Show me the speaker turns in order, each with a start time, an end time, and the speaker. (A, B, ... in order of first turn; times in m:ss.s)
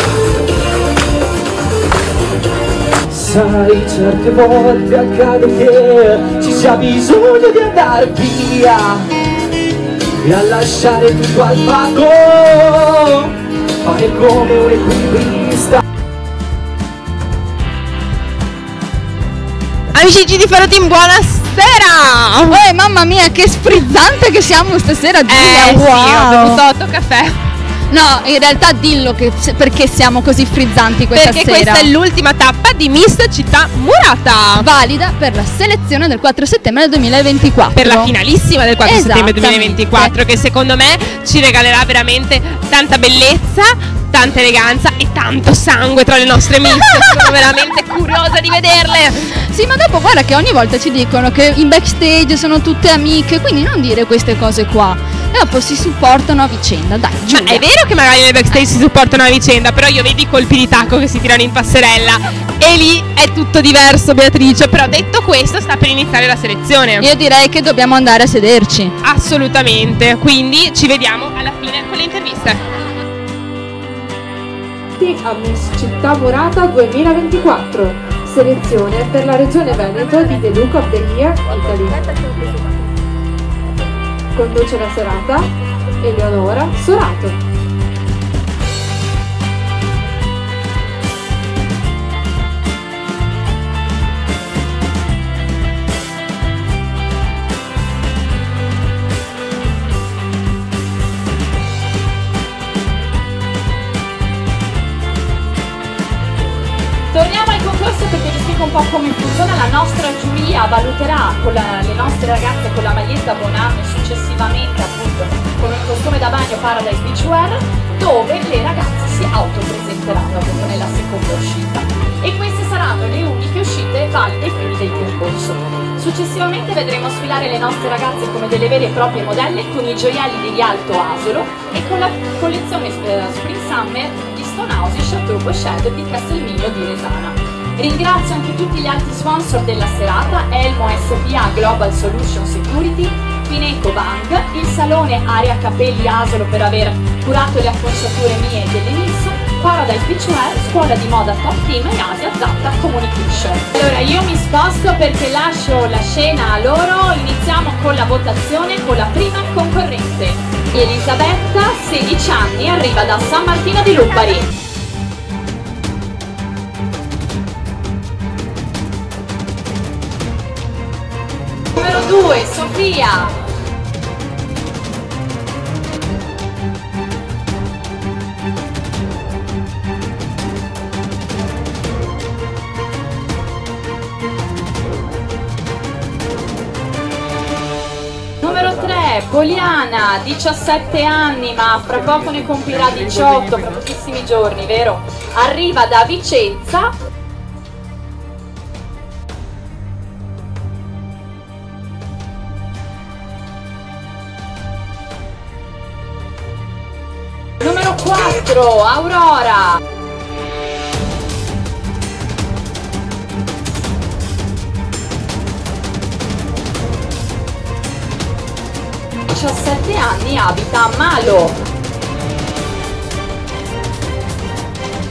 0:03.1-0:09.0 A
0:10.2-0:13.3 A
0:13.8-0:15.8 A
0:19.9-0:22.6 B
0:22.5-0:26.6 C
0:25.3-0:27.4 B
0:27.9-0:31.9 C
0:31.1-0:34.7 B
0:34.6-0:38.1 C
0:37.7-0:49.2 B
0:38.8-0:40.2 C
0:46.6-0:47.4 C
0:49.5-0:57.7 C
0:57.3-1:07.1 B
1:07.0-1:09.0 C
1:09.0-1:12.6 B
1:15.0-1:21.7 D
1:24.4-1:25.1 D
1:26.0-1:27.3 D
1:47.1-2:44.5 E
2:51.7-2:53.4 E
3:08.4-3:16.9 E
3:27.6-3:29.8 E
3:39.3-3:41.6 E